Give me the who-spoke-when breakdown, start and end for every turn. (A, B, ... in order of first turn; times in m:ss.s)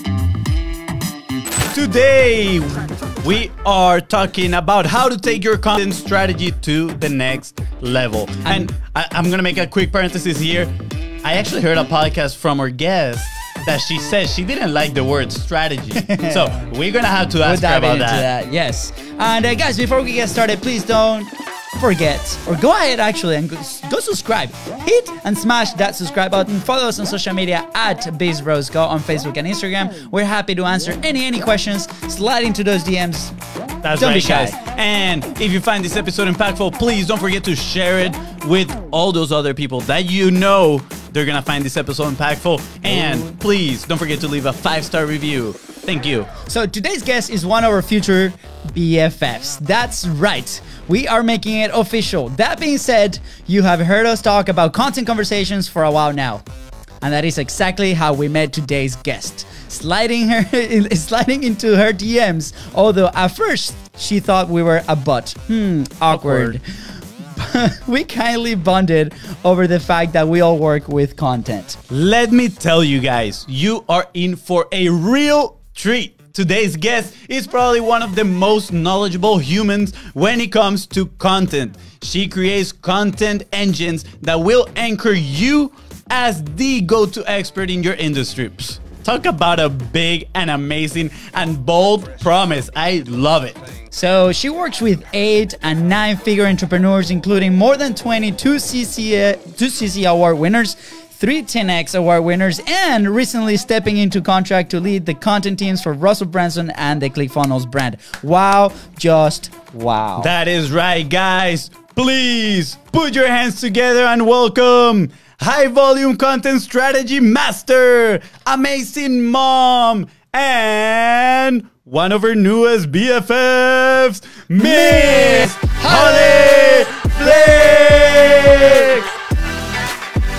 0:01.7-0:10.7 A
0:11.2-0:18.3 A
0:16.0-0:16.6 B
0:17.4-0:33.3 B
0:33.8-0:46.4 A
0:34.0-0:34.6 B
0:42.8-0:43.4 B
0:46.4-0:56.4 B
0:57.0-1:11.8 B
1:06.1-1:06.6 A
1:11.9-1:33.6 A
1:33.9-1:50.3 B
1:50.2-2:09.0 A
2:04.6-2:09.0 B